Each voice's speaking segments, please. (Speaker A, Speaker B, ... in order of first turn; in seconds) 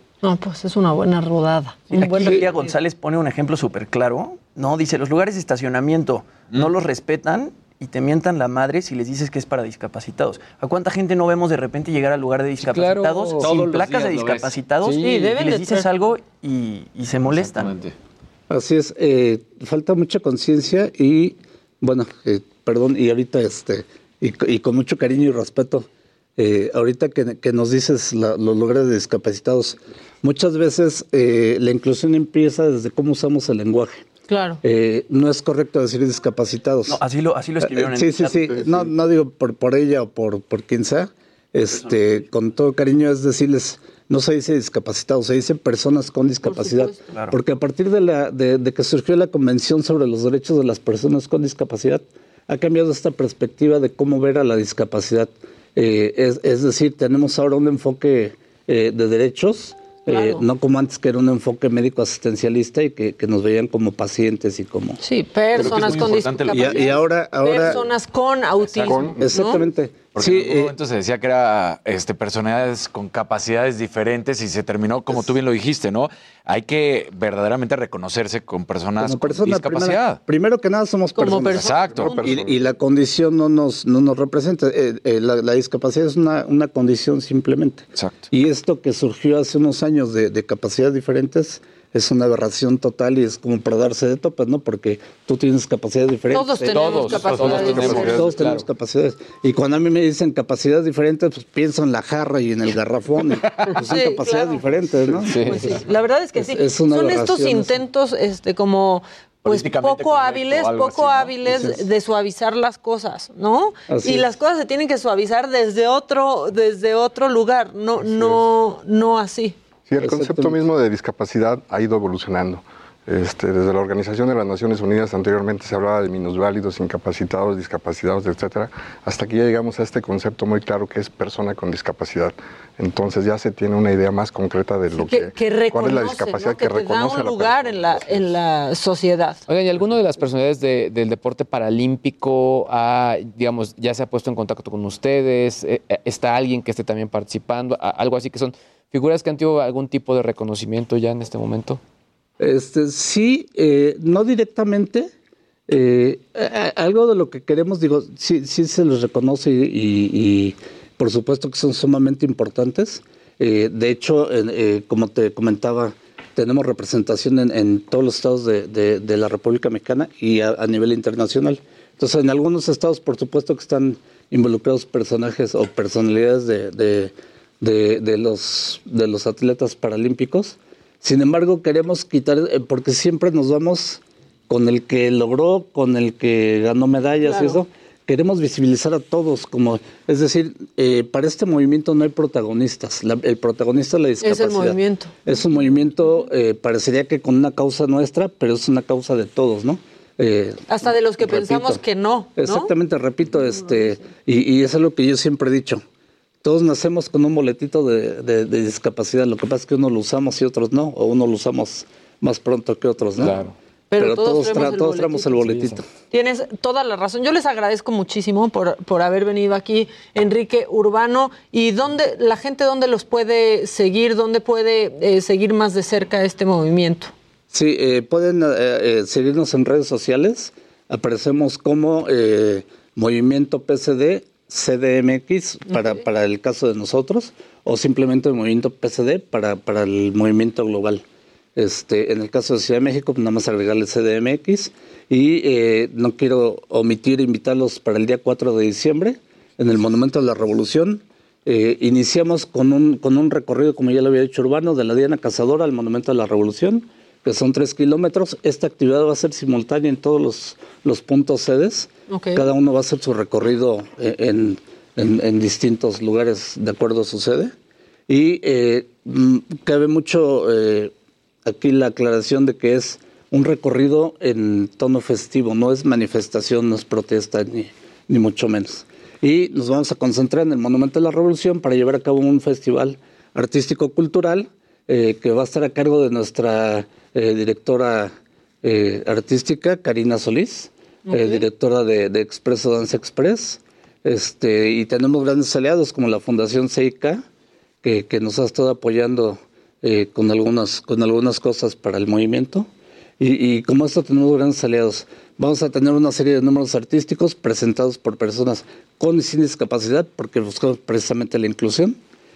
Speaker A: 0.2-2.5, 15.0-15.9, 34.3-34.6, 46.5-47.0, 60.1-60.4, 65.0-69.6, 81.1-82.5, 96.3-98.3, 103.8-104.6, 105.4-119.5, 134.9-139.4, 187.2-187.6, 194.2-195.1, 200.7-202.7, 213.9-215.4, 216.1-227.1, 235.7-236.0, 262.1-262.4, 291.1-291.4
Speaker B: 1.9-17.7, 36.9-38.9, 47.1-47.4
Speaker C: 12.7-13.9, 14.8-15.3, 96.7-98.6, 105.2-105.7, 139.5-151.8, 213.2-213.5, 215.4-215.8
Speaker D: 13.4-14.5, 17.4-17.9, 65.5-67.0, 68.7-69.1, 70.1-80.2, 81.6-82.2, 88.0-88.3, 109.4-111.3
Speaker E: 18.5-34.0, 34.6-37.0, 37.6-65.0, 65.9-67.8, 68.9-70.7, 79.0-105.8, 106.3-107.8, 111.5-111.8, 113.9-114.3, 120.0-120.6, 152.4-155.1, 155.7-201.8, 202.4-205.8, 206.4-213.4, 213.9-215.8, 227.5-241.0, 241.6-267.5, 268.1-270.9, 271.4-297.2, 297.8-302.7, 303.2-312.0
Speaker F: 68.8-69.2, 81.5-82.6, 97.8-98.3, 118.0-118.4, 119.9-138.3